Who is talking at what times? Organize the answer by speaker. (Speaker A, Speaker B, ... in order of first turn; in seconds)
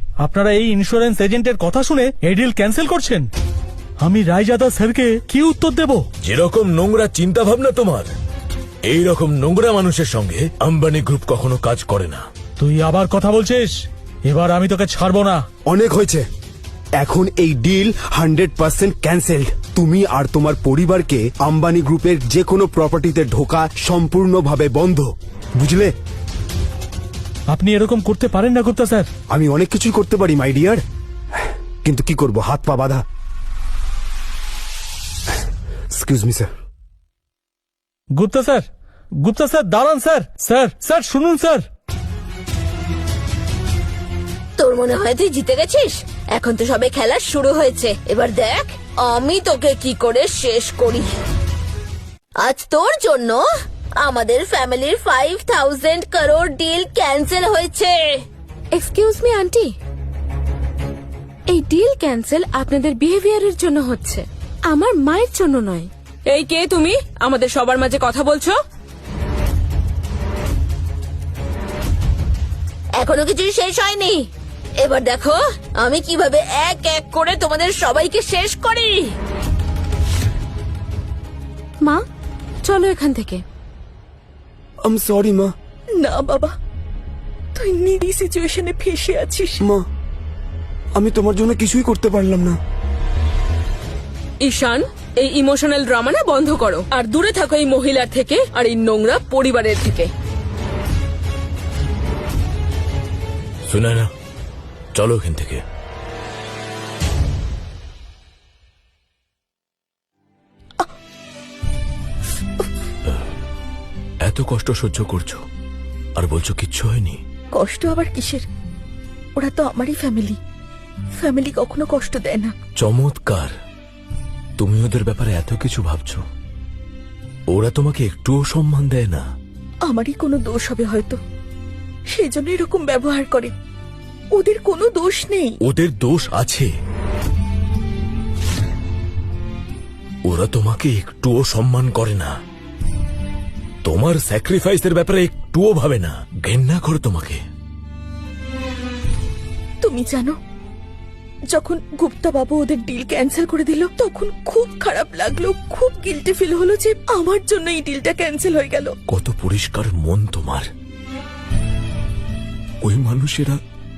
Speaker A: 0.2-3.3, 4.0-6.0, 12.6-15.4, 27.5-29.1, 38.1-38.7, 39.2-41.6
Speaker B: 6.2-8.1, 8.9-12.2, 103.7-104.1, 104.9-105.6, 114.2-115.4, 116.2-117.2, 122.8-123.5, 124.6-126.2, 127.5-129.2, 135.6-136.7, 140.2-142.3, 143.8-147.4, 159.1-160.7, 162.8-163.6
Speaker C: 15.7-16.2, 17.0-25.9, 29.3-30.8, 31.8-33.0, 35.9-36.5, 84.8-85.5, 91.0-92.6
Speaker D: 44.6-51.1, 52.4-53.4, 54.0-58.2, 73.0-74.3, 74.8-79.1
Speaker E: 58.7-59.7, 61.5-65.9, 82.6-83.4
Speaker F: 66.3-68.5, 94.4-100.1
Speaker G: 86.0-86.5, 87.5-89.6, 117.5-118.5, 119.3-120.4, 121.2-122.5, 129.8-131.2, 132.1-133.5, 134.3-135.6, 149.8-150.3, 151.5-158.9